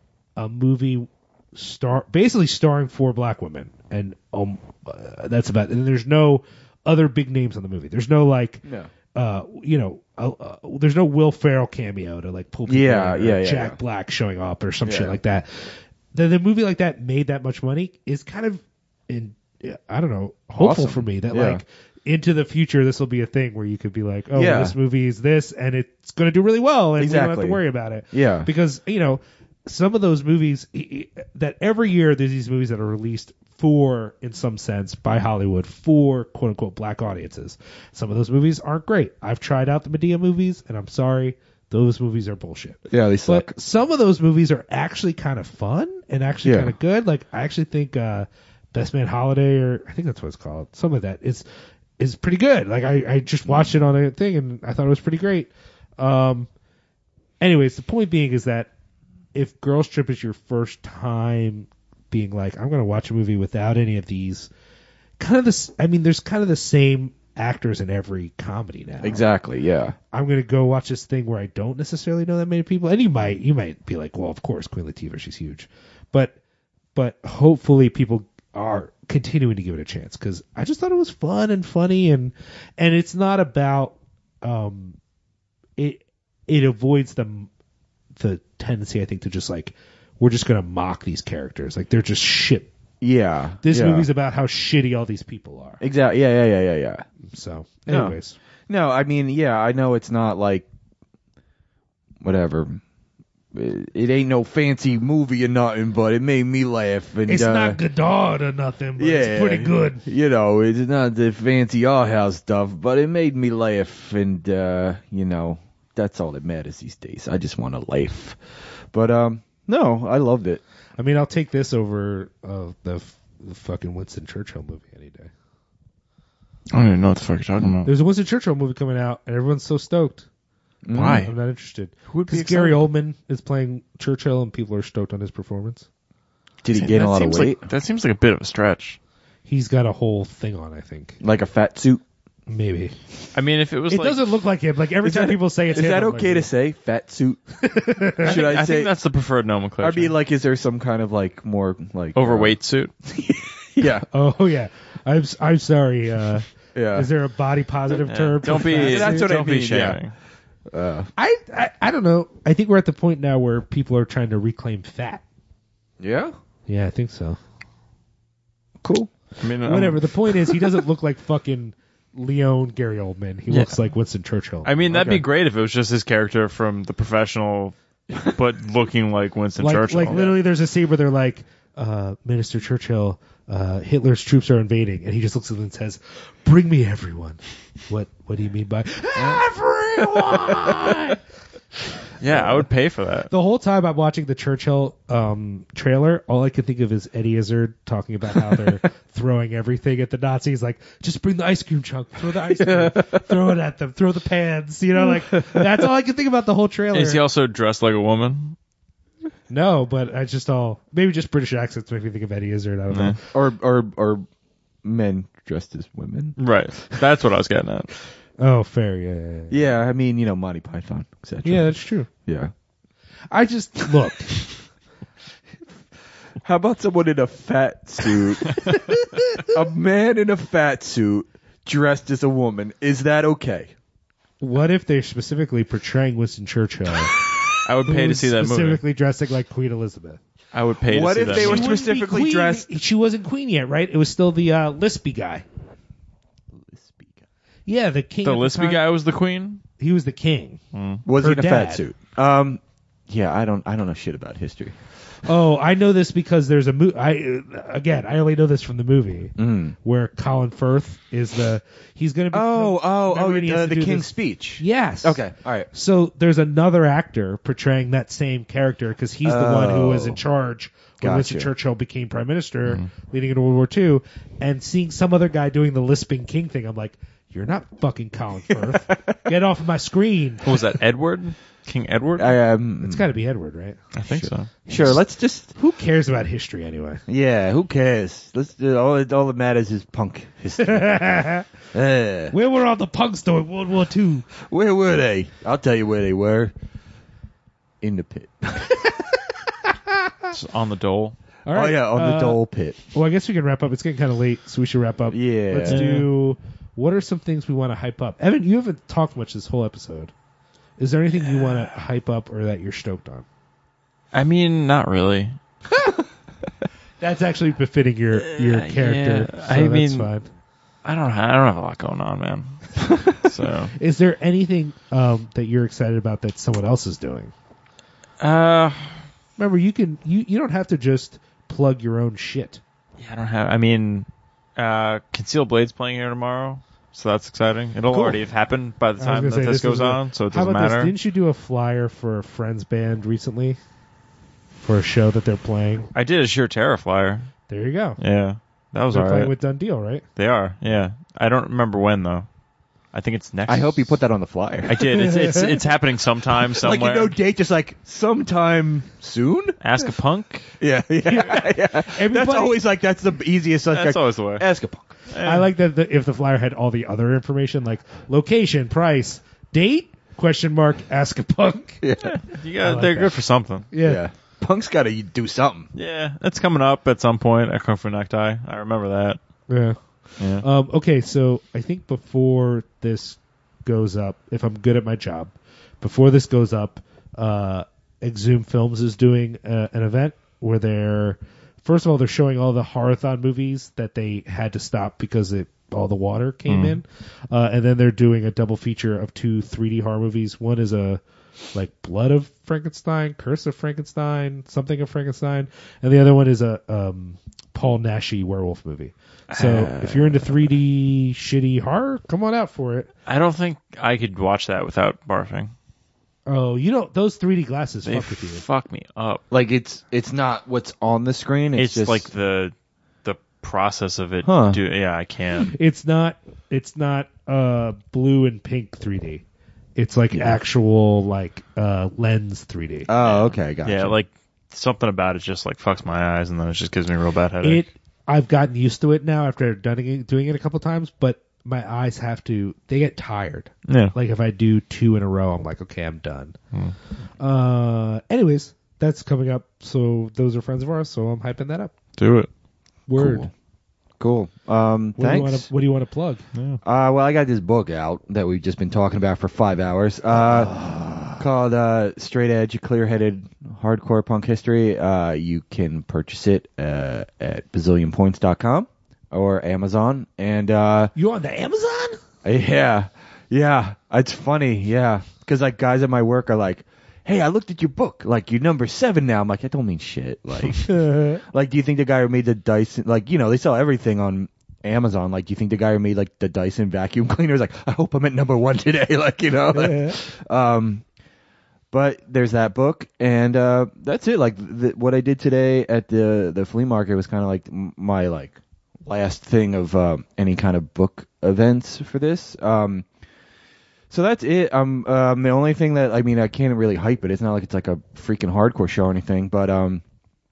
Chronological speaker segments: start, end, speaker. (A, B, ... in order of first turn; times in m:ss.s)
0:00.4-0:51.4 A
0:08.6-0:08.9 B
0:12.7-0:13.8 B
0:14.8-0:15.2 B
0:20.6-0:21.6 B
0:24.3-0:24.7 B
0:27.0-0:27.6 B
0:28.1-0:28.5 B
0:42.9-0:43.5 B
0:46.4-0:46.7 B
0:52.0-0:56.5 A
0:57.4-0:58.7 A
0:59.3-1:04.5 A
1:05.2-1:09.2 A
1:09.0-1:09.9 B
1:10.1-1:16.4 A
1:16.9-1:25.0 A
1:25.8-1:27.5 A
1:28.1-1:32.7 A
1:33.0-1:34.1 B
1:33.6-1:35.8 A
1:35.8-1:37.0 B
1:37.3-1:38.4 A
1:37.9-1:38.2 B
1:38.7-1:40.7 B
1:42.2-1:42.8 B
1:43.5-1:47.8 B
1:47.3-1:50.0 A
1:49.0-1:58.4 B
1:58.9-2:00.6 B
2:01.0-2:05.3 A
2:06.7-2:07.9 C
2:07.8-2:10.3 A
2:10.8-2:11.3 B
2:10.9-2:11.3 C
2:11.0-2:15.9 A
2:12.1-2:12.8 C
2:16.6-2:17.6 B
2:16.7-2:19.0 C
2:19.4-2:21.2 A
2:21.2-2:22.0 B
2:22.5-2:22.9 A
2:23.3-2:24.3 C
2:23.9-2:26.5 A
2:25.0-2:27.4 B
2:27.6-2:28.3 A
2:28.2-2:28.9 B
2:28.2-2:30.1 C
2:29.8-2:34.0 B
2:32.1-2:32.9 C
2:34.1-2:39.3 A
2:36.7-2:37.1 B
2:38.1-2:40.1 C
2:38.4-2:40.0 B
2:40.7-2:41.1 B
2:41.2-2:45.2 A
2:46.0-2:46.3 B
2:46.7-2:47.4 A
2:48.8-2:49.1 A
2:49.4-2:50.6 C
2:49.6-2:54.7 A
2:53.5-2:53.7 C
2:54.6-3:00.2 C
2:54.9-2:55.2 B
2:59.6-3:11.2 A
3:00.1-3:00.4 B
3:12.2-3:13.3 C
3:12.3-3:12.6 A
3:13.3-3:27.2 A
3:22.6-3:23.2 B
3:25.0-3:25.7 B
3:26.9-3:28.6 C
3:29.5-3:33.2 A
3:32.9-3:33.2 C
3:33.3-3:34.2 B
3:34.8-3:36.4 B
3:36.4-3:37.9 C
3:38.4-3:39.7 A
3:39.5-3:42.5 B
3:41.4-3:42.1 A
3:43.3-3:44.4 A
3:46.4-3:48.8 B
3:48.8-3:49.5 A
3:49.4-3:53.7 B
3:54.4-3:57.1 A
3:57.6-3:58.8 C
3:57.9-4:00.2 A
4:00.5-4:01.8 C
4:00.8-4:02.7 B
4:01.2-4:05.4 A
4:06.7-4:07.2 B
4:07.7-4:08.8 A
4:08.2-4:09.6 C
4:09.8-4:10.6 A
4:10.7-4:11.0 C
4:11.0-4:14.8 B
4:11.2-4:11.8 A
4:15.2-4:40.6 A
4:19.4-4:19.7 B
4:22.3-4:25.7 B
4:29.2-4:30.2 B
4:31.0-4:31.5 B
4:38.5-4:39.2 B
4:40.4-4:42.3 C
4:42.2-4:43.0 B
4:42.8-4:43.8 A
4:43.9-4:44.5 C
4:44.1-4:45.5 B
4:44.7-4:44.9 A
4:45.5-4:47.0 A
4:47.1-4:51.0 B
4:50.6-4:51.5 A
4:51.7-4:52.3 B
4:52.3-4:54.3 A
4:54.4-4:56.5 B
4:57.8-4:58.8 B
5:00.3-5:01.2 C
5:01.4-5:02.4 A
5:01.5-5:02.8 B
5:02.9-5:10.1 A
5:05.1-5:05.8 B
5:05.7-5:06.1 C
5:10.8-5:13.2 A
5:14.1-5:15.4 C
5:17.0-5:20.3 A
5:18.3-5:20.1 C
5:20.8-5:23.7 C
5:23.8-5:27.3 A
5:28.2-5:29.0 C
5:29.4-5:32.6 A
5:33.0-5:40.9 C
5:37.9-5:38.2 B
5:39.0-5:43.6 A
5:44.6-5:45.9 A
5:45.9-5:47.3 C
5:47.5-5:48.0 A
5:48.0-5:49.3 C
5:48.9-5:50.0 A
5:50.2-5:52.3 C
5:52.9-5:53.9 C
5:53.5-5:54.9 B
5:54.7-5:57.1 C
5:54.9-5:55.5 A
5:56.3-5:59.6 B
5:59.6-6:00.5 C
6:00.6-6:04.9 B
6:01.0-6:02.6 A
6:03.7-6:04.4 C
6:05.1-6:05.5 C
6:05.2-6:11.8 A
6:11.8-6:12.2 B
6:12.0-6:13.7 C
6:12.6-6:13.1 A
6:13.7-6:14.0 A
6:13.8-6:15.7 B
6:15.7-6:19.2 C
6:19.5-6:19.8 A
6:20.3-6:41.0 A
6:36.5-6:36.8 C
6:41.5-6:52.9 A
6:49.3-6:50.2 C
6:53.0-6:55.5 C
6:56.3-6:58.4 A
6:57.8-6:59.2 C
6:59.3-7:02.1 B
7:01.6-7:05.5 C
7:04.2-7:04.6 B
7:05.5-7:09.2 A
7:09.8-7:12.9 A
7:10.1-7:10.4 B
7:12.9-7:14.0 B
7:13.0-7:17.7 C
7:17.4-7:26.4 A
7:23.7-7:23.9 C
7:27.2-7:31.7 A
7:32.0-7:32.3 C
7:32.9-7:33.3 A
7:33.0-7:33.3 B
7:34.0-7:35.5 B
7:35.0-7:36.2 A
7:36.3-7:36.6 C
7:36.6-7:40.6 B
7:40.2-7:41.1 A
7:41.1-7:50.9 B
7:51.0-7:52.0 A
7:52.2-8:10.8 B
8:00.6-8:01.2 A
8:09.5-8:10.0 A
8:11.7-8:22.8 B
8:23.9-8:29.8 B